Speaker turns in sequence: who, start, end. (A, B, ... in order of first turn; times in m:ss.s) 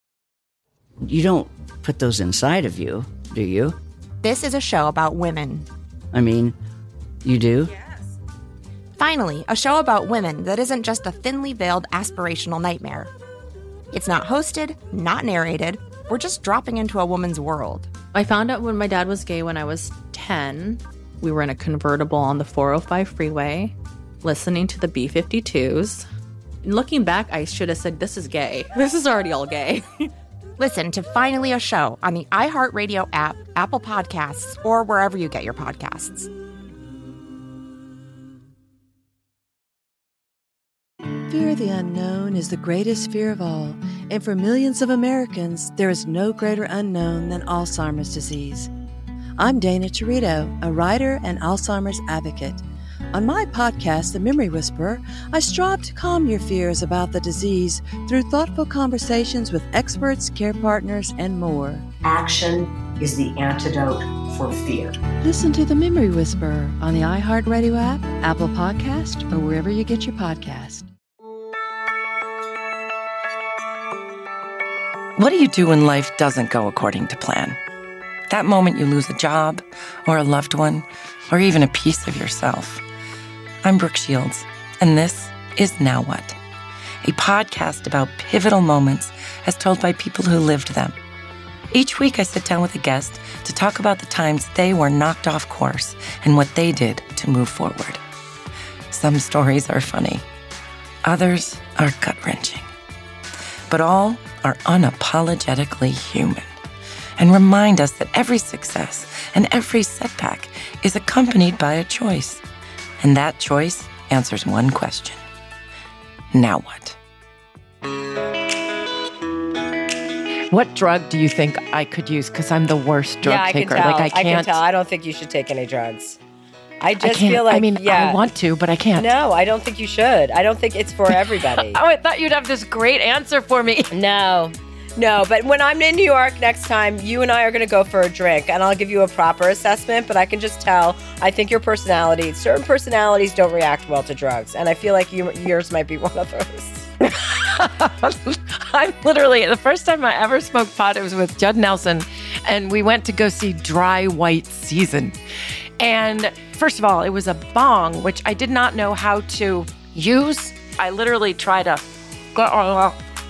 0:01.0-0:03.8 A
0:04.2-0:05.7 B
0:06.1-0:06.6 A
0:07.2-0:07.7 A
0:09.0-0:13.1 B
0:13.9-0:17.9 B
0:18.1-0:26.0 C
0:26.6-0:30.1 C
0:30.6-0:36.3 B
0:41.3-0:48.7 D
0:49.4-1:01.9 D
1:02.0-1:05.0 E
1:05.2-1:10.9 D
1:15.2-1:17.6 F
1:18.3-1:22.8 F
1:23.6-1:26.4 F
1:27.0-1:31.0 F
1:31.7-1:38.0 F
1:38.9-1:40.2 F
1:41.0-1:42.7 F
1:43.7-1:46.5 F
1:47.2-1:52.4 F
1:53.0-1:55.2 F
1:56.3-1:57.0 F
2:00.5-2:04.6 F
2:03.2-2:06.2 G
2:06.8-2:08.2 G
2:07.0-2:09.1 F
2:08.9-2:11.8 G
2:11.1-2:13.9 F
2:13.9-2:26.9 G
2:27.0-2:35.2 F
2:35.8-2:43.0 F